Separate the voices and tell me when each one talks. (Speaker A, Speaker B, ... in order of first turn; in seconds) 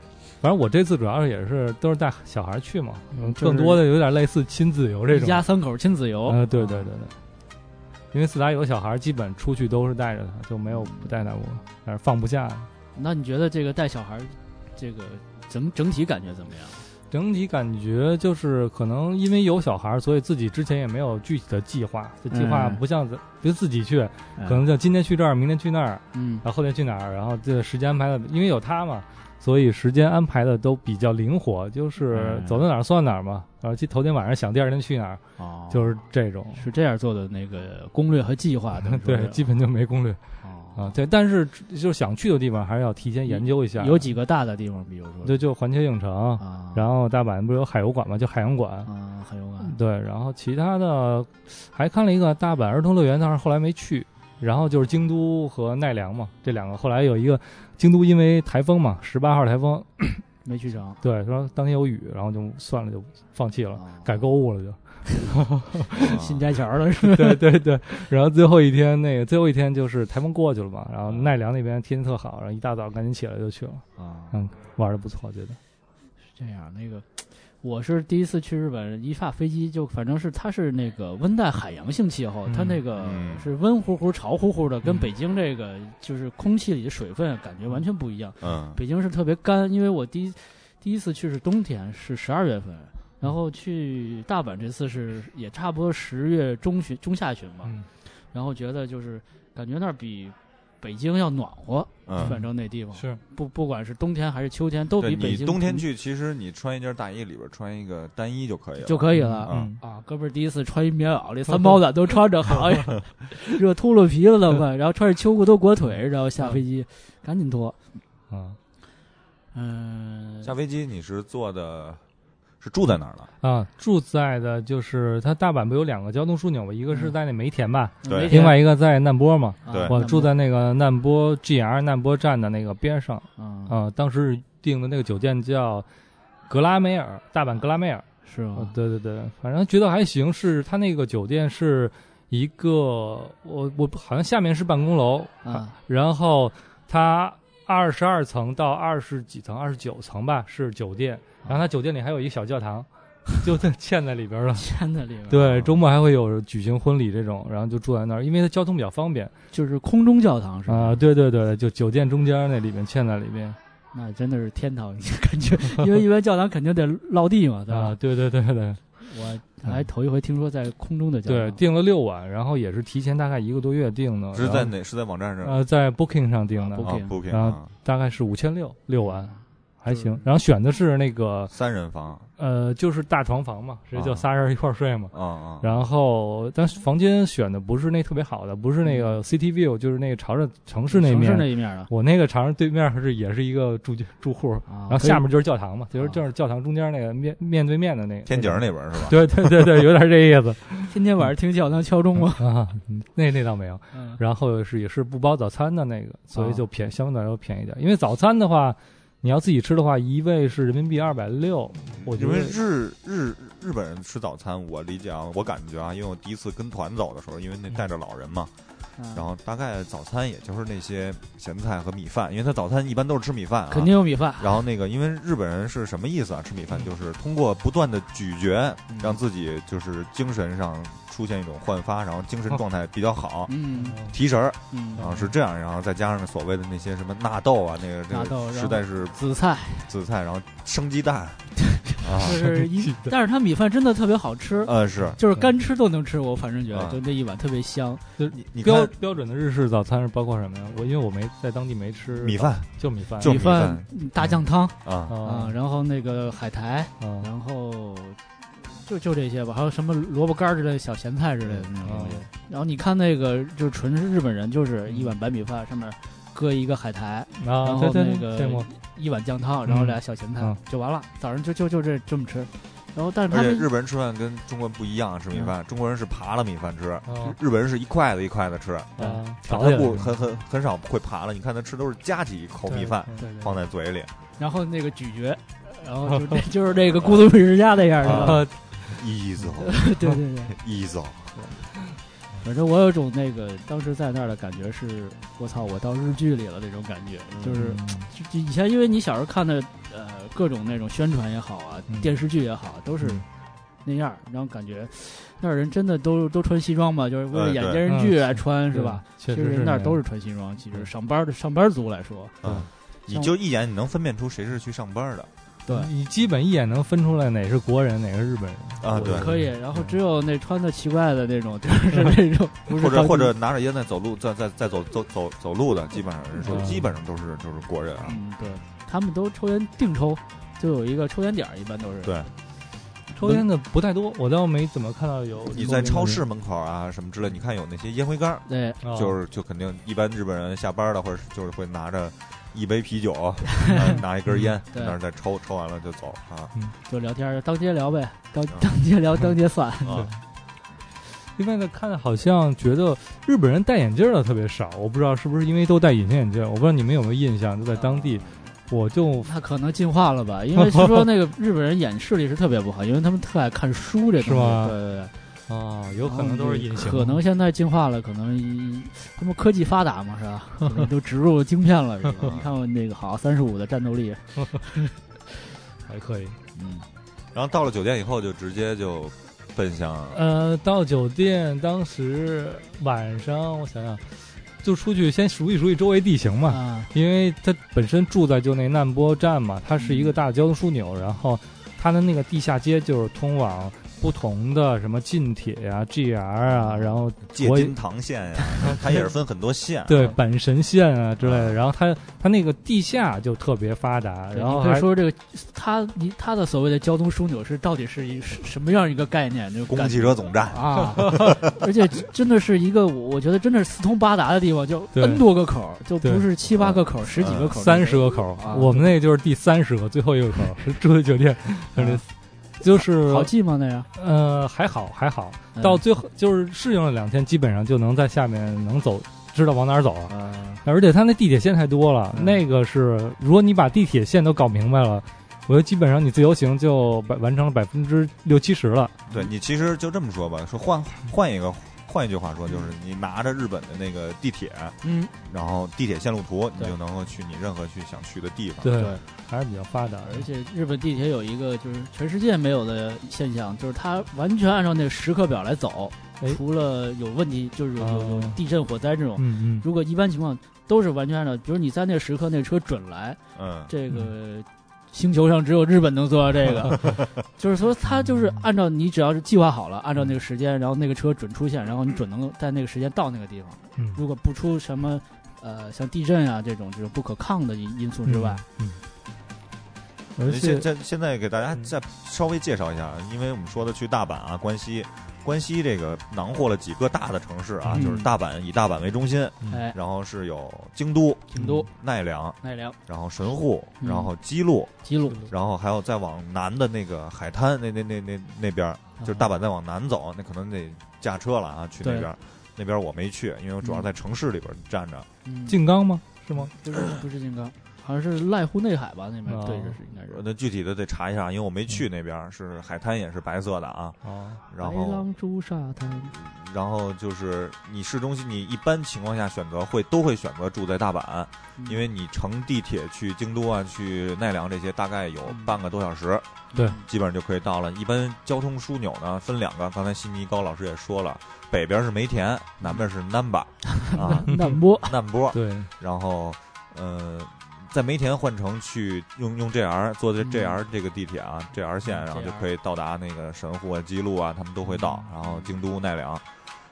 Speaker A: 0.4-5.5, 6.3-7.2, 8.1-12.7, 17.1-36.6, 38.9-40.2, 40.8-44.1, 45.2-48.9, 49.6-60.2, 61.0-65.9, 67.0-75.6, 82.5-82.8, 102.2-103.2, 109.2-109.8, 118.3-118.6, 123.4-135.9, 136.5-154.7, 155.3-159.3, 160.7-163.6, 167.7-168.8, 171.3-174.7, 175.4-181.6, 182.4-200.9, 202.4-212.6, 242.3-243.1, 248.2-253.4, 255.1-255.6, 257.0-257.3, 261.8-262.3, 267.4-268.7, 269.7-270.6, 277.1-277.4, 279.0-280.1, 282.7-283.4, 288.1-288.8, 297.6-298.1, 307.9-310.0, 315.7-319.9, 326.4-326.9, 333.1-336.2, 338.8-339.2, 344.3-344.5, 349.9-350.2, 351.4-359.3, 364.2-364.8, 365.5-367.2, 375.9-376.4, 380.1-397.7, 399.9-404.9, 414.9-415.2, 417.5-422.1, 422.6-423.3, 423.9-439.0, 448.6-450.3, 457.8-458.4, 459.2-459.6, 467.9-468.4, 478.1-478.8, 480.2-480.7, 491.4-491.6, 505.5-506.5, 509.3-509.8, 514.0-514.4, 534.3-534.6, 535.3-535.7
Speaker B: 3.1-3.8, 5.1-6.9, 10.7-11.1, 12.9-16.9, 22.3-22.8, 24.4-24.6, 26.1-26.4, 32.1-32.7, 35.4-36.0, 36.5-39.4, 40.4-41.0, 43.3-45.4, 46.4-46.9, 48.9-49.8, 60.4-61.0, 63.8-64.2, 65.9-67.4, 74.0-74.4, 76.3-105.9, 108.8-117.8, 119.5-120.5, 128.0-128.6, 129.7-130.3, 133.4-133.8, 138.2-138.7, 145.4-145.7, 154.6-155.4, 159.5-161.0, 163.9-168.0, 169.0-171.6, 176.6-177.1, 179.0-180.3, 188.8-189.2, 190.9-191.9, 194.7-195.3, 195.9-196.2, 200.9-202.4, 203.9-204.2, 206.3-206.7, 219.0-219.2, 223.7-224.6, 228.9-229.2, 233.5-234.0, 234.7-235.3, 238.1-239.9, 241.7-248.0, 253.2-273.7, 283.2-283.5, 284.4-288.5, 289.5-290.6, 292.4-303.2, 303.8-312.5, 313.1-313.3, 315.7-315.9, 318.9-323.3, 326.4-326.7, 328.1-332.3, 333.2-333.5, 338.5-338.8, 346.9-350.1, 357.7-358.5, 359.2-365.1, 366.0-374.9, 376.6-376.9, 386.5-386.9, 389.8-390.2, 396.4-397.0, 404.3-418.9, 421.8-422.0, 422.7-423.9, 425.6-425.8, 430.1-430.6, 432.1-432.4, 442.5-442.7, 444.8-445.1, 448.8-449.0, 450.0-478.4, 487.7-488.1, 489.5-489.8, 491.3-491.7, 492.4-492.8, 493.8-494.1, 494.8-495.3, 499.0-499.3, 501.8-502.1, 503.6-503.9, 505.2-505.6, 506.4-510.2, 514.6-516.1, 521.6-521.8, 525.3-525.5, 526.5-526.8, 533.8-535.0, 540.2-540.6, 541.9-542.5, 545.2-545.5
Speaker C: 66.0-66.4, 82.9-83.5, 88.4-88.8, 102.1-102.3, 105.0-109.7, 120.4-122.0, 122.6-123.3, 128.1-128.3, 129.7-130.0, 155.4-155.8, 174.3-175.6, 176.8-177.7, 181.5-182.3, 183.9-184.3, 185.1-185.8, 198.3-199.7, 212.0-218.5, 219.1-239.2, 239.9-242.4, 244.6-245.2, 246.7-247.0, 248.3-248.9, 252.2-253.9, 254.8-255.2, 273.3-284.1, 288.0-289.9, 290.5-291.4, 307.3-307.8, 312.4-315.3, 318.8-319.3, 322.7-328.2, 332.0-332.3, 335.5-346.5, 349.9-350.1, 372.2-372.5, 377.3-380.2, 397.3-400.1, 401.2-401.6, 409.7-411.4, 416.6-417.6, 439.1-448.8, 463.4-463.7, 480.2-505.1, 510.1-515.1, 516.0-546.2